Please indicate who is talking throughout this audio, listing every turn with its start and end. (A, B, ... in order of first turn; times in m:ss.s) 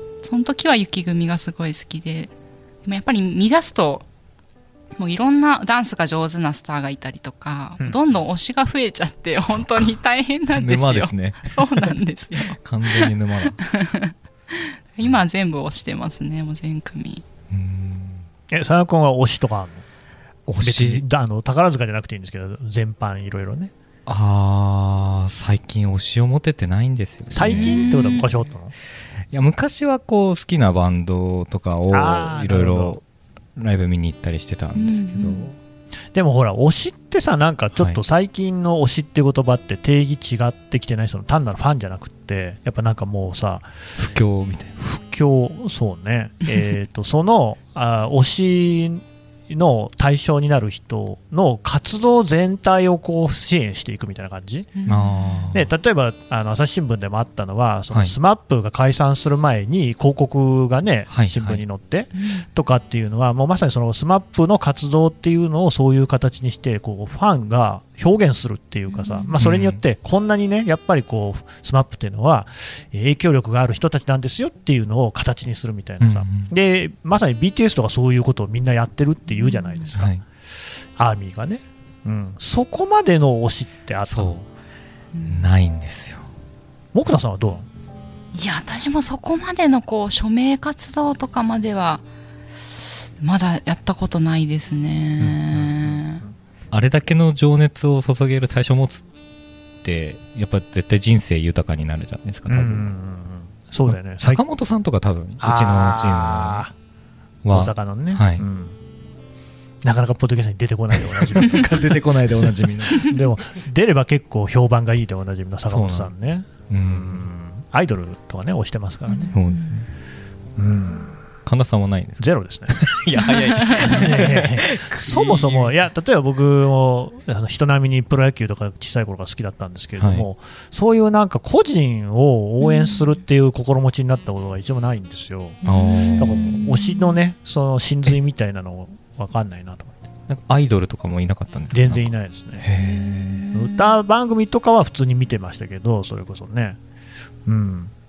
0:00.2-0:02.3 A
0:02.8-0:04.1 A
0:05.0-0:17.2 A
0:09.6-0:09.9 B
0:10.5-0:12.0 B
0:12.6-0:13.6 B
0:17.5-0:18.3 B
0:18.5-0:19.8 C
0:20.5-0:21.0 B
0:20.6-0:23.7 C
0:24.1-0:28.2 B
0:27.3-0:28.7 C
0:27.4-0:28.3 A
0:29.3-0:33.0 B
0:31.9-0:33.0 C
0:33.6-0:35.5 B
0:34.8-0:35.5 A
0:36.1-0:43.7 C
0:44.0-0:44.8 B
0:44.8-0:54.8 C
0:54.8-0:55.5 A
0:54.9-0:55.7 B
0:55.5-1:20.1 C
1:01.1-1:01.6 B
1:02.2-1:02.5 A
1:08.9-1:09.3 A
1:09.4-1:09.8 B
1:16.0-1:16.5 B
1:19.4-1:19.9 A
1:19.9-1:20.2 B
1:21.0-1:24.4 C
1:24.1-1:24.4 B
1:25.1-1:25.5 A
1:25.3-1:26.3 B
1:26.9-1:27.7 C
1:28.3-1:32.0 A
1:33.2-1:36.2 A
1:35.2-1:36.3 C
1:36.7-1:39.0 B
1:39.8-1:42.9 B
1:42.5-1:44.4 C
1:43.9-1:46.7 B
1:45.4-1:46.7 C
1:47.4-1:48.4 B
1:47.5-1:48.8 C
1:49.8-1:59.3 C
1:51.3-1:53.3 B
1:55.7-1:56.1 B
1:56.7-1:57.3 B
1:59.1-1:59.7 A
1:59.3-1:59.9 B
2:00.6-2:01.2 C
2:01.5-2:05.7 B
2:02.2-2:15.6 C
2:03.2-2:04.0 A
2:10.0-2:10.3 B
2:12.6-2:13.1 A
2:15.6-2:16.6 B
2:15.6-2:17.2 A
2:16.2-2:20.0 C
2:20.3-2:23.5 B
2:21.7-2:22.7 C
2:22.8-2:23.8 A
2:23.5-2:26.8 C
2:27.5-2:27.9 C